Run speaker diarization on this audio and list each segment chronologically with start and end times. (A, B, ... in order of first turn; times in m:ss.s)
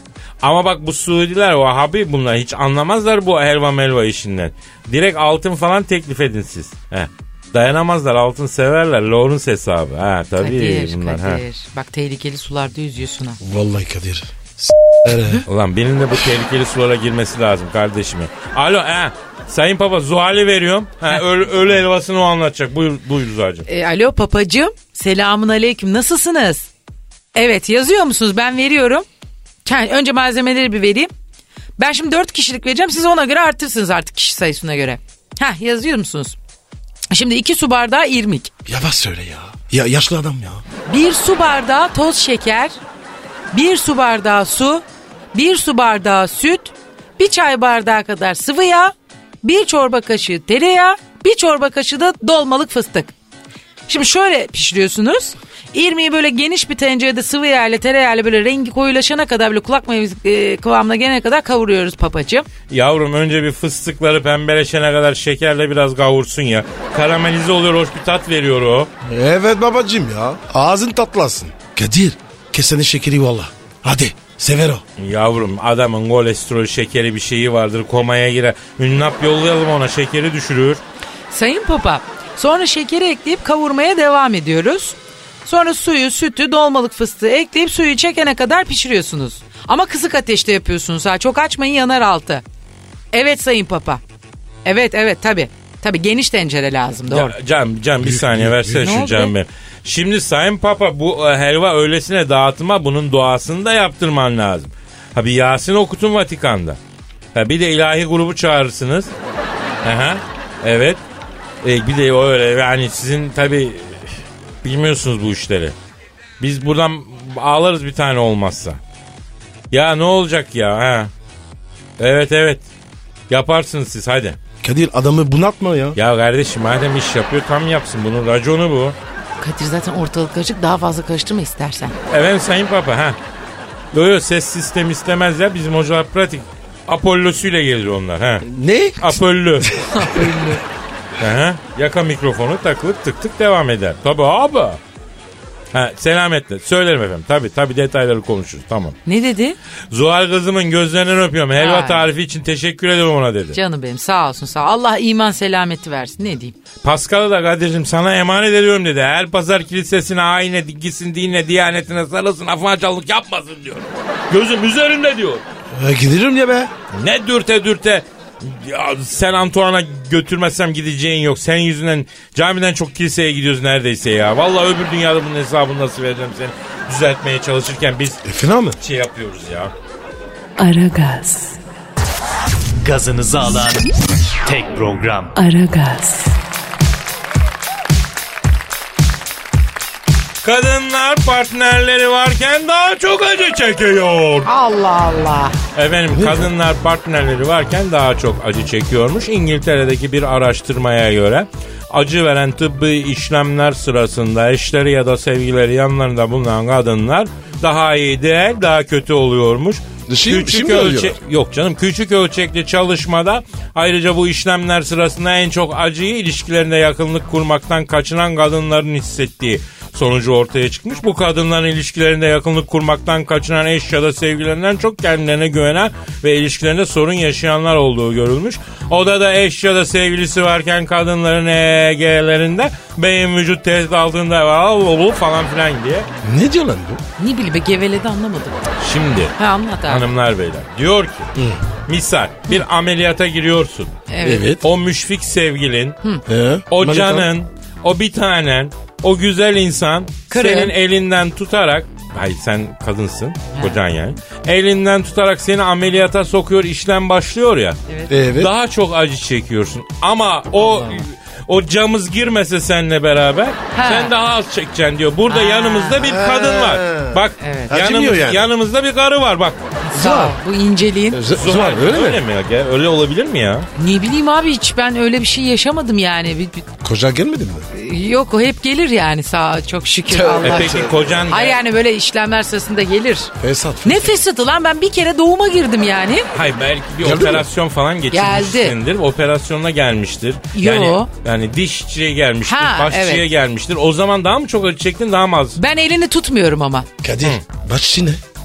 0:00.4-0:11.4 A
0:10.4-0:13.4 B
0:13.4-0:15.4 C
0:15.4-0:23.6 A
0:23.7-0:26.7 B
0:27.4-0:29.0 B
0:29.6-0:31.1 B
0:31.8-0:36.4 B
0:37.1-0:38.5 B
0:38.6-0:40.6 C
0:40.9-0:42.8 B
0:43.5-0:53.1 B
0:53.9-1:02.5 B
1:02.7-1:08.9 A
1:09.1-1:14.8 C
1:15.0-1:20.8 A
1:21.3-1:32.4 B
1:33.1-1:34.0 B
1:34.6-1:37.3 B
1:37.1-1:46.8 A
1:38.0-1:38.9 C
1:38.8-1:39.3 B
1:47.4-1:49.1 A
1:49.8-1:51.0 A
1:51.6-1:55.8 A
1:56.4-1:58.8 A
1:59.7-2:01.1 A
2:02.0-2:02.6 A
2:03.3-2:04.4 A
2:04.6-2:06.0 C
2:06.0-2:09.0 A
2:09.4-2:12.0 B
2:12.1-2:13.2 A
2:13.9-2:18.4 A
2:18.4-2:20.2 C
2:19.0-2:19.8 A
2:19.9-2:20.6 B
2:21.2-2:24.8 A
2:25.7-2:29.0 A
2:29.0-2:29.6 B
2:29.9-2:33.6 A
2:31.5-2:32.1 B
2:33.5-2:36.5 B
2:36.8-2:45.4 A
2:45.7-2:46.7 C
2:46.9-2:58.2 A
2:58.2-2:58.8 C
2:58.8-2:59.7 A
3:00.6-3:01.6 D
3:02.8-3:03.9 E
3:04.4-3:05.3 E
3:05.4-3:06.4 D
3:10.4-3:14.5 A
3:14.4-3:15.5 B
3:15.8-3:56.1 A
3:16.1-3:16.5 C
3:30.1-3:31.2 C
3:56.2-3:57.0 C
3:57.2-3:58.6 B
3:58.8-3:59.3 A
3:59.4-4:00.0 B
3:59.9-4:01.3 A
4:01.4-4:01.6 C
4:01.9-4:04.0 A
4:04.1-4:04.4 B
4:04.2-4:04.6 C
4:04.6-4:06.0 A
4:06.3-4:07.3 C
4:06.7-4:17.8 A
4:10.3-4:10.7 B
4:18.1-4:18.5 C
4:18.3-4:29.6 A
4:20.5-4:21.0 B
4:23.7-4:24.1 B
4:25.3-4:26.1 B
4:26.0-4:28.5 C
4:27.4-4:27.7 B
4:29.8-4:31.2 B
4:29.9-4:30.4 C
4:31.1-4:32.2 C
4:31.4-4:33.7 A
4:33.8-4:36.6 B
4:36.8-4:37.7 C
4:37.7-4:43.3 B
4:40.1-4:41.1 C
4:40.4-4:41.6 A
4:43.4-4:44.1 C
4:43.8-4:46.3 B
4:46.3-4:55.6 A
4:47.0-4:47.5 C
4:48.1-4:48.8 B
4:50.5-4:51.1 B
4:52.5-4:53.2 B
4:55.6-4:56.9 B
4:57.0-4:58.2 C